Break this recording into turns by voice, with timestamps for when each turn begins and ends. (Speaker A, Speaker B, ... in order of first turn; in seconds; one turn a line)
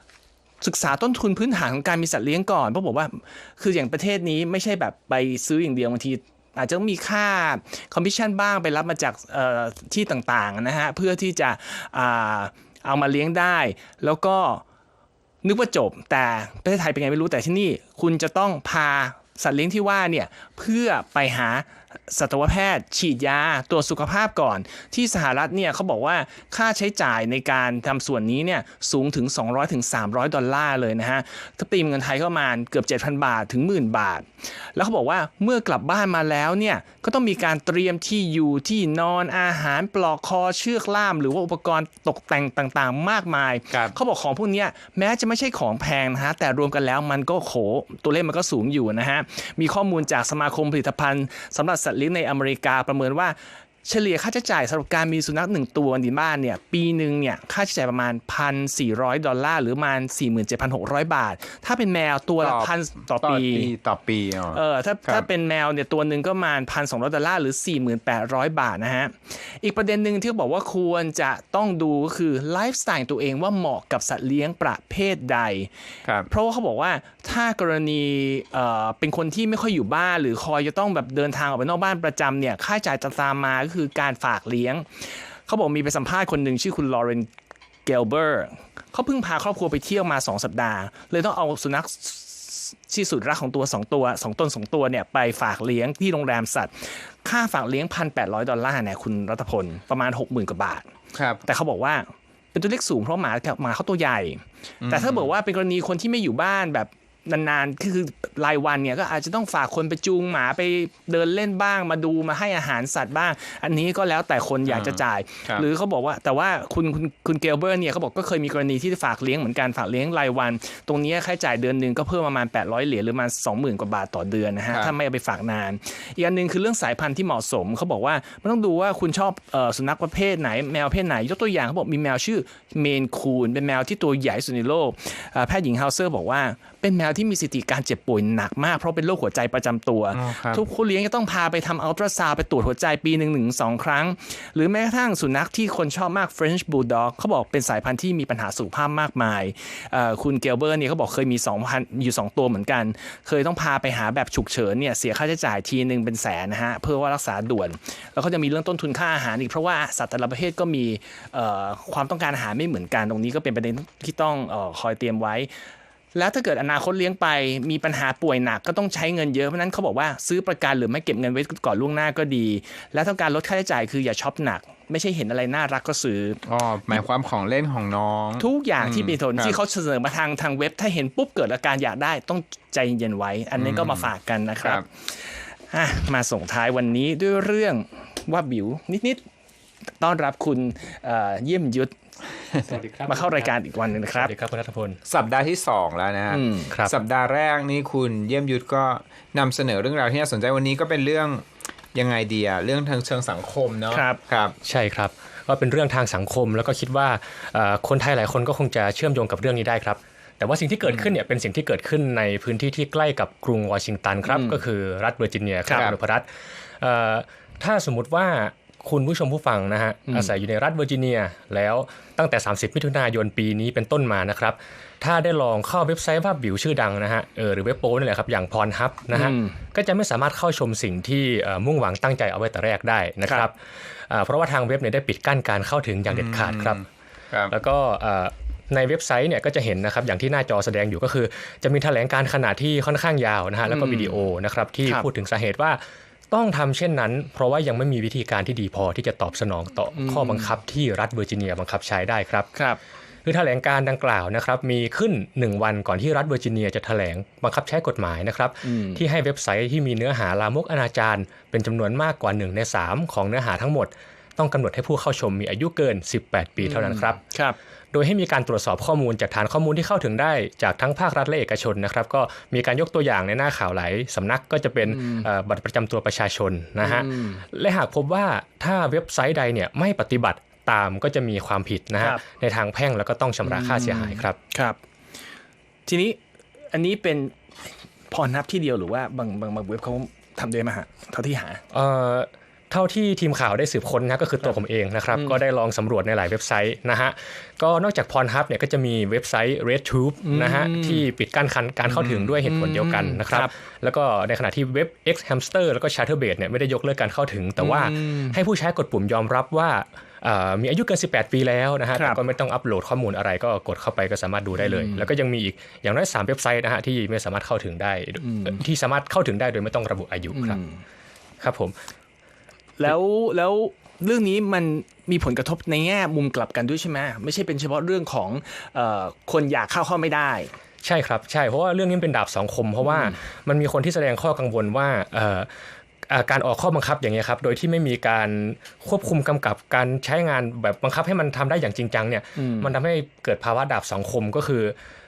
Speaker A: 0.6-14.6
Speaker A: 15.4-63.7
Speaker B: 62.4-65.2
Speaker A: 64.5-75.7
Speaker A: 76.3-87.3
Speaker A: 87.8-100.9
Speaker B: 101.1-101.4
Speaker A: 101.4-165.5
Speaker B: 104.8-105.3
Speaker B: 114.7-115.6
Speaker B: 140.1-140.6
Speaker A: 166.1-176.4
Speaker B: 176.4-179.6
Speaker A: 178.4-189.2
Speaker B: 183.6-184.1
Speaker A: 190.0-191.9
Speaker C: 192.7-193.5
Speaker A: 193.1-194.3
Speaker C: 194.1-195.0
Speaker B: 195.0-204.5
Speaker A: 196.3-196.7
Speaker A: 203.9-204.2
Speaker C: 204.6-216.3
Speaker B: 210.8-211.1
Speaker A: 214.3-214.6
Speaker C: 216.8-233.6
Speaker A: 220.1-220.3
Speaker A: 229.1-229.6
Speaker C: 234.1-236.8
Speaker B: 236.1-237.5
Speaker C: 237.5-252.5
Speaker A: 243.7-244.1
Speaker A: 250.0-250.5
Speaker C: 253.2-267.2
Speaker A: 258.6-259.0
Speaker A: 266.6-267.6
Speaker C: 267.9-284.4
Speaker A: 274.9-275.3
Speaker A: 276.8-277.4
Speaker A: 283.4-284.8
Speaker A: 285.9-286.2
Speaker A: 286.7-287.4
Speaker A: 288.1-291.6
Speaker C: 291.7-320.6
Speaker A: 300.2-301.0
Speaker A: 302.0-303.5
Speaker A: 307.6-308.4
Speaker A: 314.6-315.1
Speaker A: 318.2-318.6
Speaker A: 320.3-320.8
Speaker C: 321.4-321.7
Speaker A: 322.8-330.5
Speaker C: 330.8-335.5
Speaker A: 332.8-333.1
Speaker C: 336.1-344.7
Speaker A: 342.4-342.7